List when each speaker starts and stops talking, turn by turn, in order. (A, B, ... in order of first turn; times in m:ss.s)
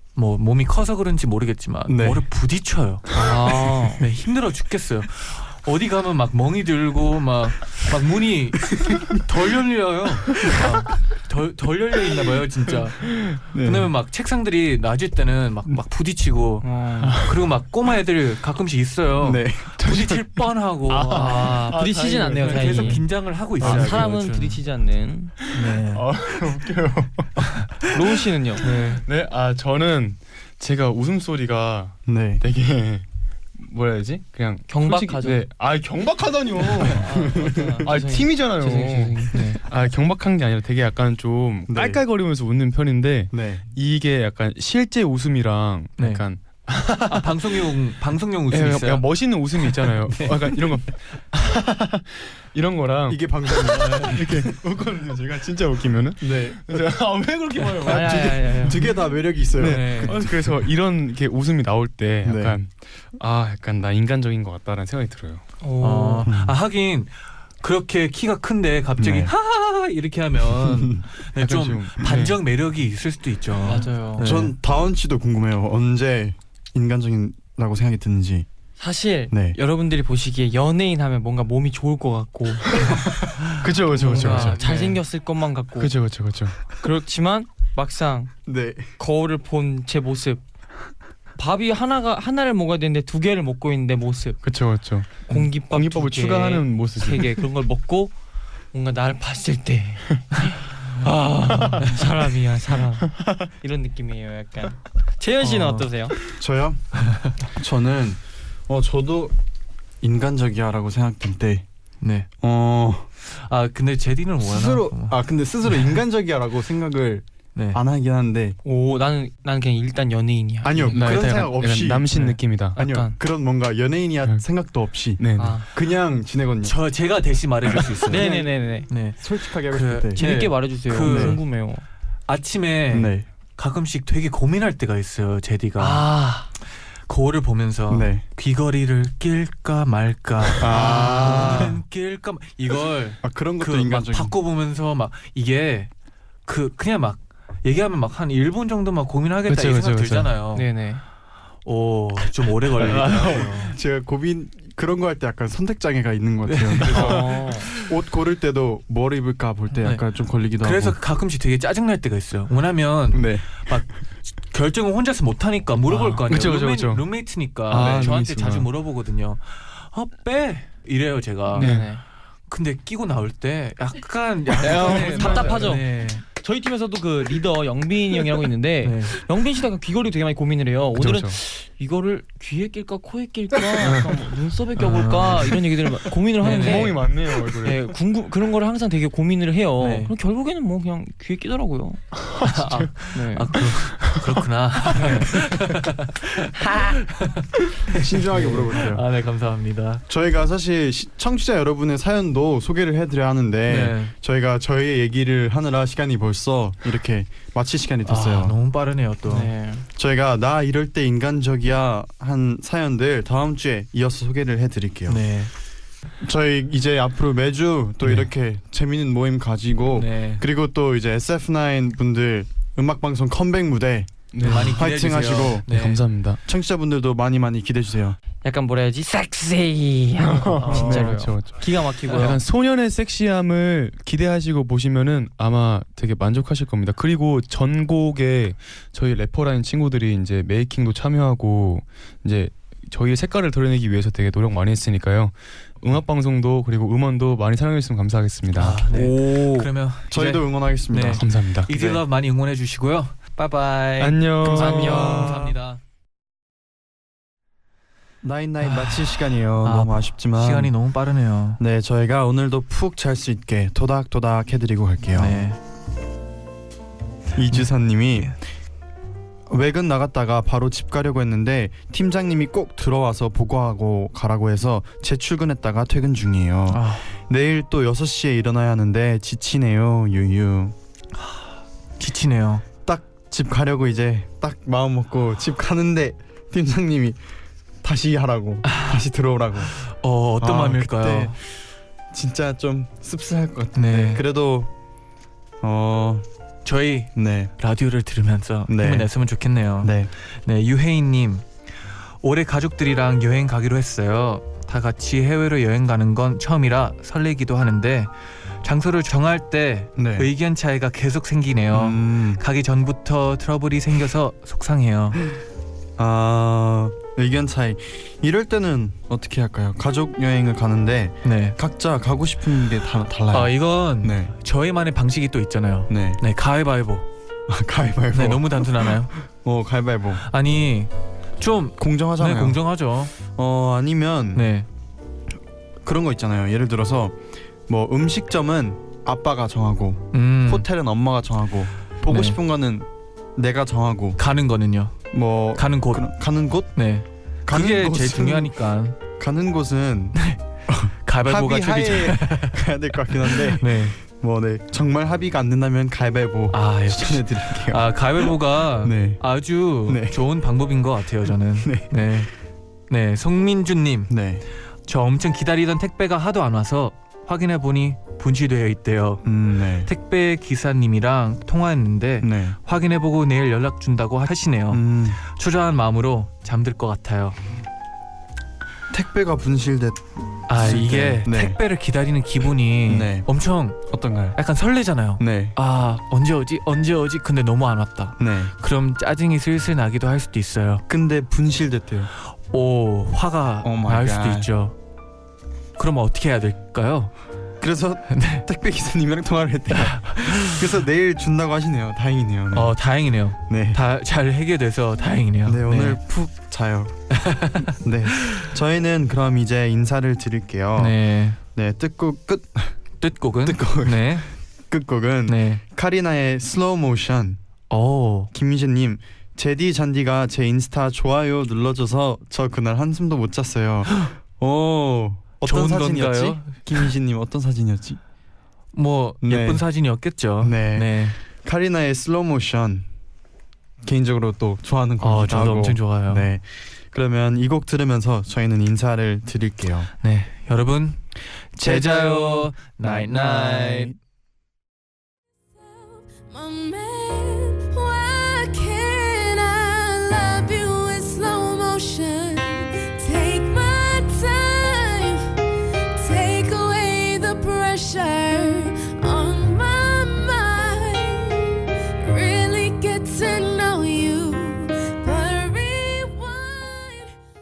0:00.1-0:03.2 A
0:01.9-0:02.2 B
0:03.1-0:04.0 C
0:04.0-0:21.7 A
0:08.8-0:09.2 B
0:13.5-0:13.9 B
0:16.6-0:17.2 C
0:19.2-0:20.1 B
0:19.8-0:20.1 D
0:20.9-0:23.0 D
0:21.1-0:23.0 C
0:22.4-0:24.6 A
0:23.6-0:25.3 C
0:23.6-0:24.0 D
0:25.5-0:27.5 D
0:25.5-0:26.0 A
0:27.9-0:28.7 C
0:28.6-0:33.0 D
0:28.6-0:29.0 A
0:32.1-0:32.4 B
0:33.6-0:47.6 D
0:34.7-0:35.4 C
0:36.9-0:39.4 C
0:37.1-0:37.8 B
0:39.3-0:39.6 A
0:41.7-0:42.0 B
0:43.3-0:43.7 B
0:46.0-0:46.2 A
0:47.1-0:50.5 A
0:48.5-0:59.0 D
0:53.1-0:54.6 B
0:53.6-0:54.3 A
0:56.2-0:56.9 B
0:57.8-0:58.8 C
0:57.8-1:00.5 B
0:59.6-1:05.4 D
0:59.6-1:00.2 A
1:02.2-1:02.6 B
1:05.6-1:06.3 C
1:05.8-1:14.6 A
1:06.2-1:06.6 B
1:09.0-1:09.3 B
1:10.6-1:11.0 B
1:11.4-1:12.4 D
1:13.6-1:14.2 C
1:14.2-1:18.5 B
1:18.8-1:23.0 C
1:19.3-1:19.6 B
1:23.6-1:24.6 D
1:24.0-1:25.9 C
1:24.2-1:25.0 B
1:25.8-1:26.6 D
1:26.7-1:28.3 C
1:28.4-1:28.9 B
1:29.0-1:30.4 C
1:31.4-1:34.4 C
1:34.4-1:37.4 D
1:35.2-1:38.1 C
1:38.7-1:46.2 C
1:45.4-1:45.9 A
1:46.3-1:49.4 B
1:47.1-1:47.3 A
1:50.0-1:51.6 B
1:52.0-1:52.3 A
1:52.4-1:53.1 B
1:53.2-1:55.2 A
1:54.4-1:58.6 B
1:57.6-1:57.8 A
1:58.6-2:01.1 C
2:00.6-2:06.8 B
2:00.9-2:02.8 D
2:02.7-2:03.2 C
2:05.2-2:05.6 D
2:05.4-2:05.7 C
2:06.6-2:11.4 A
2:07.7-2:08.5 B
2:08.1-2:08.9 C
2:09.2-2:10.5 B
2:10.1-2:11.8 C
2:11.0-2:11.4 B
2:12.3-2:16.1 A
2:12.9-2:13.2 B
2:15.8-2:16.5 C
2:17.1-2:25.9 A
2:17.9-2:18.2 B
2:20.6-2:21.8 B
2:20.7-2:21.7 C
2:23.2-2:24.4 B
2:26.5-2:30.6 A
2:29.5-2:30.3 D
2:30.6-2:31.0 C
2:31.6-2:33.7 A
2:32.8-2:41.0 B
2:36.4-2:37.9 A
2:36.9-2:37.7 C
2:40.6-2:43.9 A
2:43.1-2:43.8 B
2:44.5-2:51.8 A
2:45.9-2:46.2 C
2:46.0-2:47.0 D
2:47.7-2:48.2 D
2:47.7-2:48.7 B
2:51.5-2:51.9 D
2:51.5-2:52.0 C
2:52.5-2:56.2 A
2:54.6-2:55.7 D
2:54.6-3:07.0 C
2:58.8-2:59.1 A
3:01.0-3:01.4 D
3:03.7-3:04.2 D
3:04.8-3:05.5 D
3:04.8-3:05.6 A
3:06.4-3:07.8 D
3:06.4-3:07.0 A
3:07.6-3:12.1 C
3:09.8-3:10.1 A
3:12.4-3:12.8 D
3:12.4-3:20.0 A
3:13.1-3:13.5 C
3:15.0-3:15.3 C
3:17.9-3:19.0 B
3:20.1-3:28.6 B
3:23.7-3:24.1 A
3:28.1-3:29.5 A
3:29.2-3:29.8 C
3:30.0-3:35.3 B
3:35.1-3:35.5 A
3:36.2-3:45.6 B
3:38.0-3:38.3 D
3:39.9-3:40.4 A
3:44.3-3:44.9 D
3:44.4-3:46.0 A
3:45.7-3:46.4 D
3:46.4-3:48.2 B
3:48.4-3:52.4 C
3:50.2-4:08.9 D
3:50.6-3:51.1 A
4:08.5-4:15.8 A
4:08.9-4:09.7 C
4:10.1-4:12.0 B
4:11.1-4:11.7 D
4:14.0-4:15.4 D
4:14.4-4:15.6 B
4:14.5-4:15.4 C
4:18.2-4:20.7 B
4:18.6-4:19.1 A
4:19.6-4:21.6 A
4:21.6-4:25.4 B
4:25.1-4:25.6 A
4:27.4-4:28.3 B
4:27.5-4:28.3 A
4:29.5-4:40.7 B
4:36.7-4:37.0 A
4:42.0-4:42.6 A
4:42.8-4:47.2 B
4:47.8-4:49.8 B
4:48.6-4:49.0 A
4:49.6-4:51.4 A
4:50.4-4:51.4 B
4:52.1-4:54.7 B
4:53.7-4:54.2 A
4:55.6-4:56.2 B
4:56.6-5:01.4 A
4:57.1-4:57.5 B
4:58.7-4:59.1 B
4:59.8-5:00.1 B
5:02.2-5:08.1 A
5:08.6-5:15.2 A
5:10.0-5:10.3 B
5:11.7-5:12.4 B
5:16.0-5:24.3 B
5:21.2-5:21.6 A
5:23.3-5:27.1 A
5:25.9-5:26.2 B
5:27.5-5:30.2 B
5:28.1-5:29.1 A
5:30.2-5:33.1 A
5:31.8-5:32.6 B
5:33.3-5:34.5 B
5:34.4-5:34.6 A
5:35.8-5:44.2 B
5:40.1-5:40.7 A
5:42.1-5:42.4 A
5:44.2-5:46.1 A
5:45.1-5:46.8 B
5:46.7-5:49.0 A
5:47.4-5:48.5 B
5:49.2-5:59.2 B
5:50.1-5:50.4 A
5:51.0-5:52.7 A
5:53.2-5:54.0 A
5:56.5-6:02.3 A
5:59.9-6:00.2 B
6:01.6-6:02.0 B
6:02.9-6:04.1 A
6:04.1-6:04.4 B
6:04.9-6:17.4 A
6:09.2-6:09.9 B
6:12.2-6:12.6 B
6:14.7-6:15.2 B
6:18.9-6:21.6 B
6:20.5-6:30.8 A
6:22.9-6:23.3 B
6:23.8-6:24.4 B
6:25.2-6:25.6 B
6:28.2-6:28.5 B
6:30.9-6:32.1 B
6:32.4-6:34.7 A
6:33.6-6:34.5 B
6:35.8-6:37.1 A
6:37.6-6:42.7 B
6:38.1-6:38.4 A
6:39.7-6:40.7 A
6:42.5-6:46.0 A
6:43.5-6:43.8 B
6:45.4-6:47.0 B
6:47.1-6:48.4 A
6:47.6-6:51.0 B
6:50.8-6:51.4 A
6:51.6-6:52.8 B
6:53.0-6:54.3 A
6:53.4-6:57.4 B
6:55.3-6:55.6 A
6:57.7-6:58.3 A
6:58.3-7:08.0 B
7:05.4-7:06.9 A
7:08.7-7:11.2 A
7:09.2-7:09.6 B
7:10.4-7:12.9 B
7:13.8-7:19.9 B
7:15.0-7:16.3 A
7:20.0-7:21.0 A
7:21.6-7:24.0 A
7:21.6-7:23.9 B
7:25.6-7:35.4 E
7:36.0-7:47.2 E